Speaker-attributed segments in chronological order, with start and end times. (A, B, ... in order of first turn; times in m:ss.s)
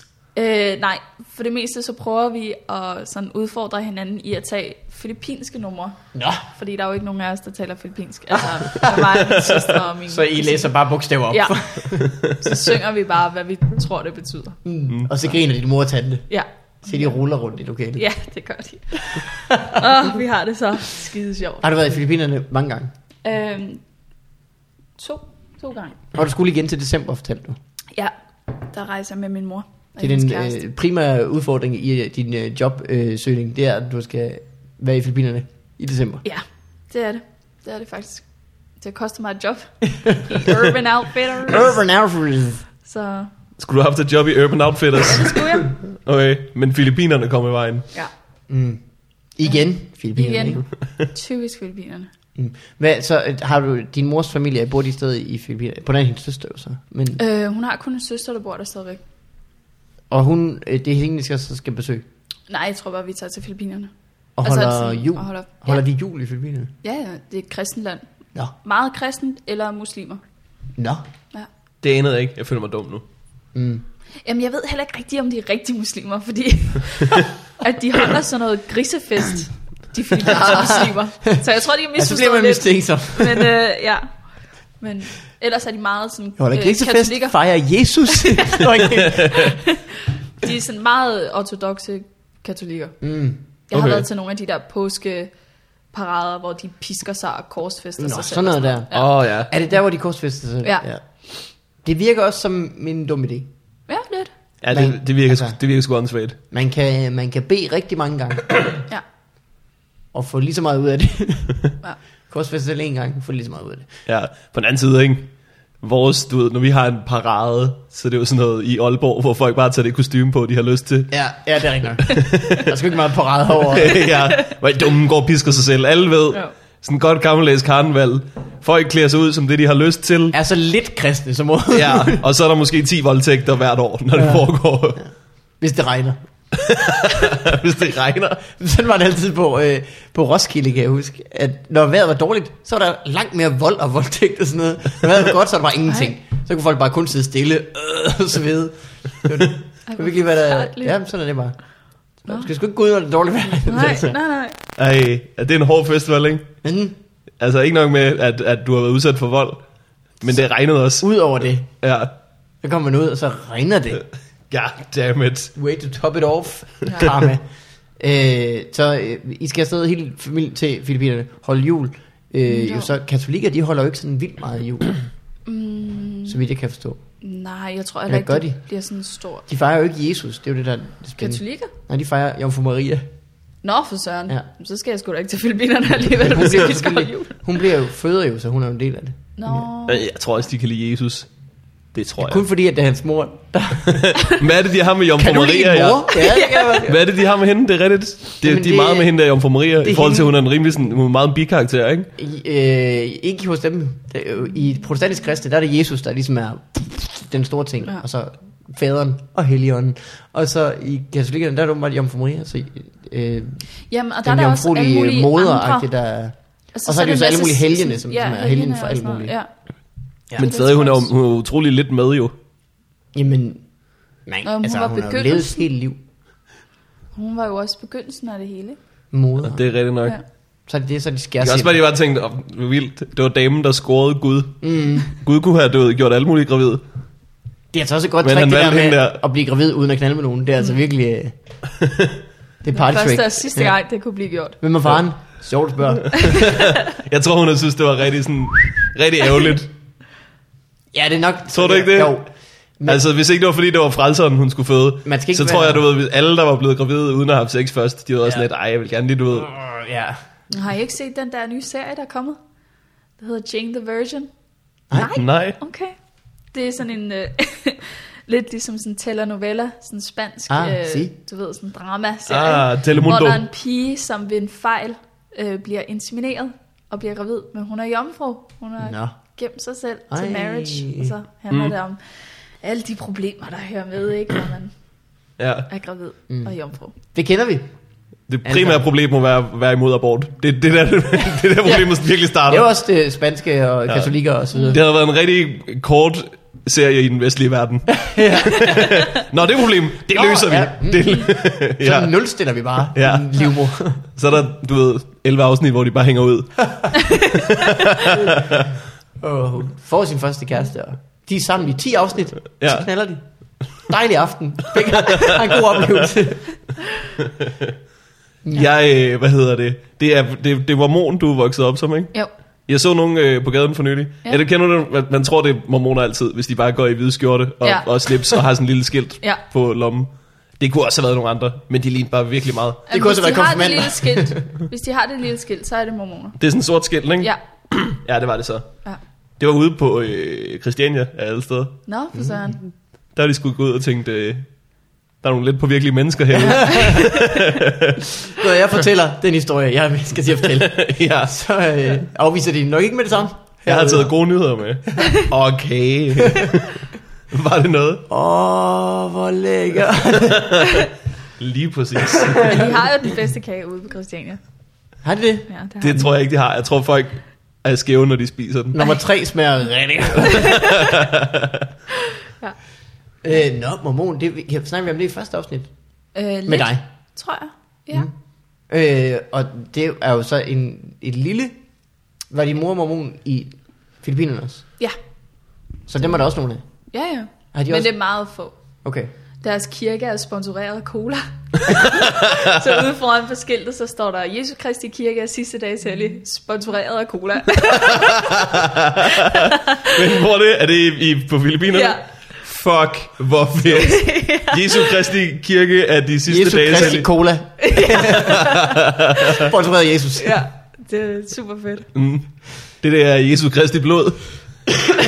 0:00.3-0:10.7 A
0:06.1-0:06.4 B
0:08.6-0:09.0 B
0:10.1-0:12.1 B
0:11.3-0:14.6 A
0:14.6-0:16.3 B
0:16.3-0:17.2 A
0:16.8-0:18.0 B
0:18.0-0:21.7 A
0:19.5-0:19.8 B
0:21.6-0:22.9 B
0:23.2-0:23.8 A
0:25.0-0:26.0 A
0:26.1-0:27.6 B
0:27.9-0:30.6 A
0:30.0-0:36.2 B
0:36.2-0:41.7 A
0:41.5-0:42.6 B
0:42.8-0:43.3 A
0:43.6-0:47.9 C
0:45.1-0:45.7 A
0:48.5-0:50.6 B
0:50.1-0:52.1 A
0:52.3-0:57.2 B
0:57.2-0:59.0 A
1:00.1-1:02.0 B
1:02.5-1:03.9 A
1:04.4-1:06.7 B
1:04.4-1:05.8 A
1:06.8-1:08.0 A
1:08.6-1:10.2 A
1:10.8-1:11.0 B
1:11.8-1:13.0 C
1:13.5-1:13.8 B
1:14.2-1:27.4 A
1:20.3-1:21.4 B
1:21.9-1:23.5 B
1:26.4-1:29.6 B
1:28.0-1:33.0 A
1:33.0-1:33.4 B
1:33.7-1:35.3 A
1:33.7-1:34.0 C
1:35.9-1:39.1 A
1:38.0-1:43.5 B
1:38.9-1:39.5 C
1:43.9-1:44.3 A
1:44.6-1:46.4 C
1:44.7-1:45.6 B
1:46.5-1:48.6 B
1:50.1-1:51.6 B
1:52.3-1:53.9 B
1:54.0-2:01.1 C
2:01.1-2:04.0 B
2:02.0-2:02.7 C
2:03.6-2:10.3 C
2:04.1-2:04.5 A
2:10.3-2:12.2 B
2:11.7-2:15.0 C
2:14.1-2:16.2 B
2:16.5-2:18.4 C
2:18.4-2:31.6 B
2:25.9-2:26.1 A
2:29.9-2:31.0 A
2:32.2-2:34.1 B
2:33.6-2:34.6 A
2:34.8-2:36.5 C
2:36.6-2:36.9 B
2:37.4-2:39.6 C
2:40.2-2:42.1 C
2:41.0-2:41.7 B
2:42.6-2:44.0 B
2:44.5-2:45.5 C
2:45.5-2:47.4 B
2:46.8-2:47.1 A
2:48.0-2:55.0 B
2:52.4-2:52.9 A
2:55.4-2:56.4 A
2:56.3-2:57.0 B
2:57.2-2:59.4 A
2:58.1-2:58.6 B
2:59.5-3:03.0 B
3:01.2-3:01.7 A
3:03.6-3:07.4 A
3:06.2-3:09.6 B
3:09.4-3:10.0 A
3:09.9-3:11.3 C
3:11.9-3:12.4 C
3:12.2-3:14.2 B
3:13.9-3:16.2 C
3:15.2-3:17.0 B
3:16.1-3:16.9 A
3:16.8-3:22.1 C
3:18.4-3:19.1 B
3:19.8-3:20.3 B
3:22.2-3:33.7 B
3:33.9-3:35.9 A
3:34.2-3:39.4 B
3:36.7-3:39.5 A
3:40.4-3:41.1 A
3:40.4-3:42.3 C
3:43.1-3:46.0 B
3:44.4-3:45.6 A
3:47.1-3:48.8 A
3:49.1-3:49.6 B
3:49.4-3:50.2 C
3:50.7-3:51.8 B
3:51.4-3:56.8 C
3:54.6-3:55.1 B
3:57.7-4:01.3 B
3:58.2-3:59.2 C
4:01.8-4:02.1 C
4:02.6-4:03.8 B
4:02.7-4:04.6 A
4:04.6-4:06.5 B
4:06.2-4:09.7 C
4:06.3-4:06.6 A
4:10.9-4:12.3 B
4:11.5-4:12.3 C
4:12.8-4:19.5 C
4:15.0-4:15.8 B
4:19.4-4:20.2 B
4:20.5-4:22.4 A
4:23.2-4:24.3 A
4:24.9-4:26.0 A
4:25.0-4:25.6 C
4:26.5-4:44.7 A
4:30.5-4:31.1 B
4:32.3-4:33.4 C
4:38.8-4:39.1 B
4:40.1-4:41.1 B
4:45.4-4:45.7 C
4:45.7-4:46.9 A
4:46.3-4:46.5 B
4:47.1-4:47.6 B
4:48.3-4:52.7 C
4:48.4-4:48.8 B
4:52.5-4:54.8 B
4:53.9-4:54.2 C
4:54.5-4:54.8 A
4:54.7-5:02.2 C
4:58.0-4:58.9 B
4:58.6-4:58.9 A
5:00.1-5:04.0 B
5:02.9-5:08.7 C
5:07.1-5:07.4 A
5:09.2-5:16.5 B
5:12.6-5:12.9 C
5:15.0-5:15.4 C
5:18.5-5:32.8 C
5:27.6-5:28.4 A
5:32.9-5:36.4 A
5:32.9-5:34.4 B
5:36.4-5:38.7 C
5:39.4-5:41.8 C
5:41.8-5:42.6 A
5:42.1-5:42.5 B
5:43.1-5:44.6 C
5:45.2-5:48.1 C
5:46.4-5:46.9 B
5:48.3-5:54.1 B
5:50.5-5:51.4 C
5:53.6-5:58.0 C
5:58.1-6:00.5 B
6:00.2-6:00.8 C
6:01.4-6:02.6 C
6:02.2-6:02.7 B
6:02.4-6:04.4 A
6:05.0-6:06.0 B
6:05.5-6:06.1 A
6:05.8-6:08.8 C
6:08.7-6:10.7 B
6:10.3-6:11.5 C
6:13.2-6:15.7 B
6:16.1-6:18.1 A
6:16.5-6:16.8 B
6:18.7-6:21.6 B
6:22.3-6:24.6 B
6:25.9-6:26.6 B
6:26.9-6:28.6 A
6:27.5-6:27.9 B
6:28.8-6:29.1 B
6:29.4-6:38.5 A
6:38.1-6:47.1 C
6:39.1-6:39.9 A
6:41.7-6:42.0 A
6:43.8-6:45.0 A
6:46.3-6:48.4 B
6:47.6-6:48.7 A
6:48.2-6:49.4 C
6:49.3-6:50.4 B
6:50.2-6:51.9 A
6:51.9-6:54.9 C